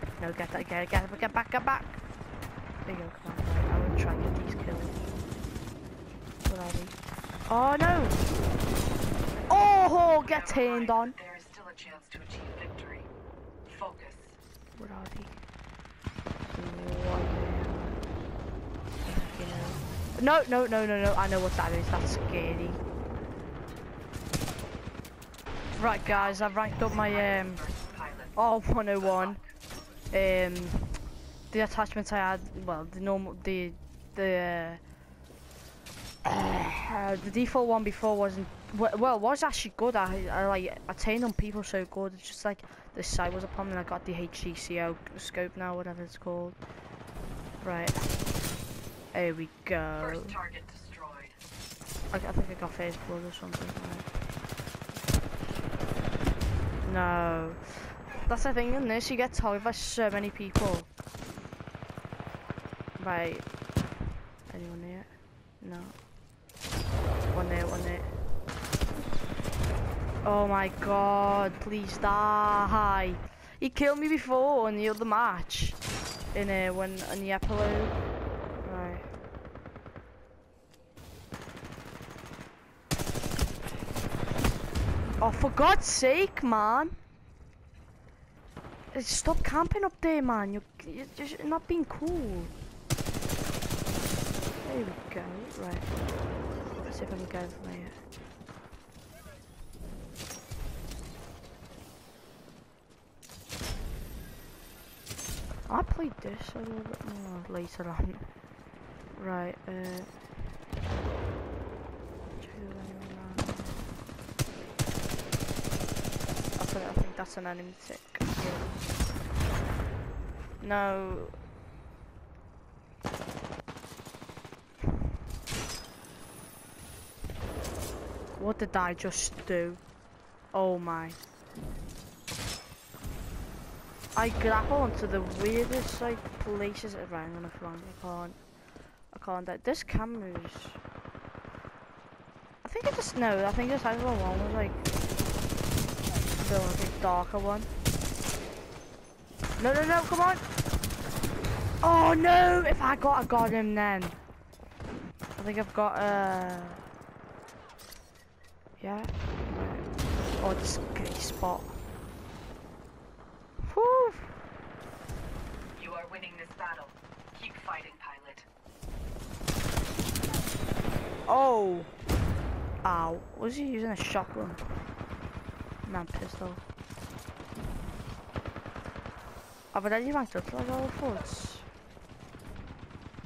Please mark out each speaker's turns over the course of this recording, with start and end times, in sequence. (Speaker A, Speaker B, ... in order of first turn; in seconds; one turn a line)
Speaker A: 0.2-2.0
Speaker A: 2.9-5.0
Speaker A: 6.5-7.0
Speaker A: 7.5-8.2
Speaker A: 9.5-11.2
Speaker B: 10.2-13.1
Speaker B: 13.7-14.4
Speaker A: 14.8-15.4
Speaker A: 16.5-18.0
Speaker A: 19.0-22.8
Speaker A: 25.8-27.6
Speaker B: 26.0-28.4
Speaker A: 28.4-29.4
Speaker B: 29.0-29.5
Speaker A: 30.1-31.0
Speaker A: 31.5-34.8
Speaker A: 36.2-46.6
Speaker A: 47.6-48.1
Speaker A: 49.1-50.4
Speaker B: 50.0-51.4
Speaker A: 52.1-54.1
Speaker A: 56.9-60.9
Speaker A: 63.0-63.5
Speaker A: 64.5-65.1
Speaker A: 65.6-66.0
Speaker A: 67.3-68.1
Speaker A: 70.2-75.8
Speaker A: 76.3-78.0
Speaker A: 78.6-79.1
Speaker A: 85.2-87.0
Speaker A: 88.9-92.5
Speaker A: 94.6-95.9
Speaker A: 96.9-98.0
Speaker A: 105.7-108.3
Speaker A: 109.2-110.1
Speaker A: 112.4-113.8
Speaker A: 116.6-118.8
Speaker A: 120.6-121.3
Speaker A: 128.4-129.8
Speaker A: 130.5-131.2
Speaker A: 134.2-138.4
Speaker A: 139.1-140.8
Speaker A: 142.6-144.8
Speaker A: 146.4-147.7
Speaker A: 149.6-150.4
Speaker A: 151.8-154.2
Speaker A: 155.4-156.8
Speaker A: 158.8-159.9
Speaker A: 160.4-161.8
Speaker A: 163.6-164.3
Speaker B: 165.8-168.5
Speaker A: 171.3-171.9
Speaker A: 172.8-174.6
Speaker A: 175.8-176.6
Speaker A: 179.7-181.7